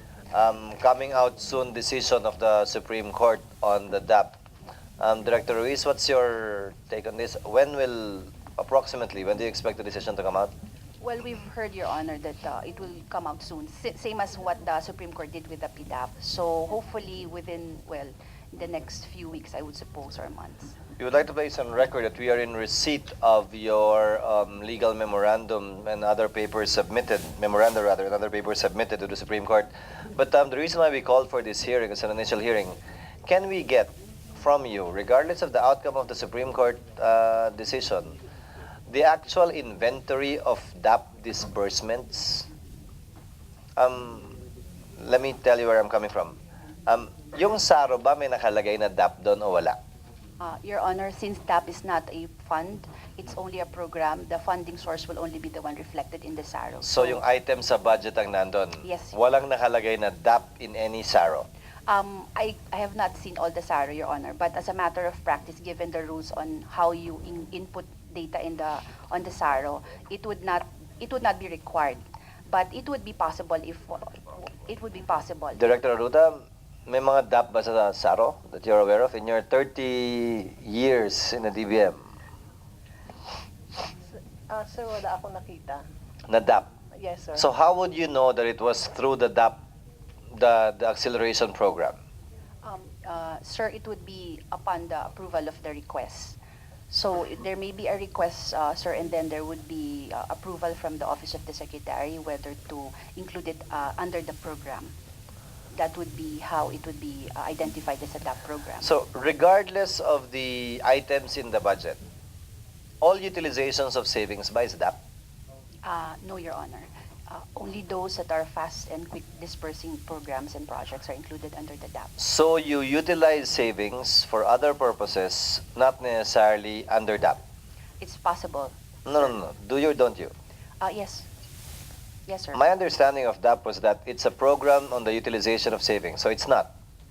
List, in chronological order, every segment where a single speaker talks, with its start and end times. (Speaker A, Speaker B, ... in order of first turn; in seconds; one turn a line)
Speaker A: 0.3-4.4
Speaker A: 5.0-10.5
Speaker B: 11.0-20.8
Speaker A: 21.0-38.2
Speaker A: 38.9-42.5
Speaker A: 43.8-44.3
Speaker A: 45.0-49.8
Speaker B: 50.4-57.2
Speaker A: 56.8-61.5
Speaker B: 58.8-59.1
Speaker B: 61.9-75.6
Speaker A: 75.6-82.0
Speaker C: 84.5-85.8
Speaker A: 86.3-86.7
Speaker C: 86.9-87.5
Speaker A: 87.3-89.6
Speaker A: 90.3-92.0
Speaker B: 92.6-96.4
Speaker B: 96.9-104.9
Speaker B: 105.7-108.9
Speaker A: 108.8-112.0
Speaker A: 113.0-115.0
Speaker B: 115.8-122.1
Speaker A: 122.2-127.4
Speaker B: 128.0-128.7
Speaker A: 129.1-130.3
Speaker B: 130.8-131.3
Speaker B: 132.3-132.6
Speaker A: 132.5-136.7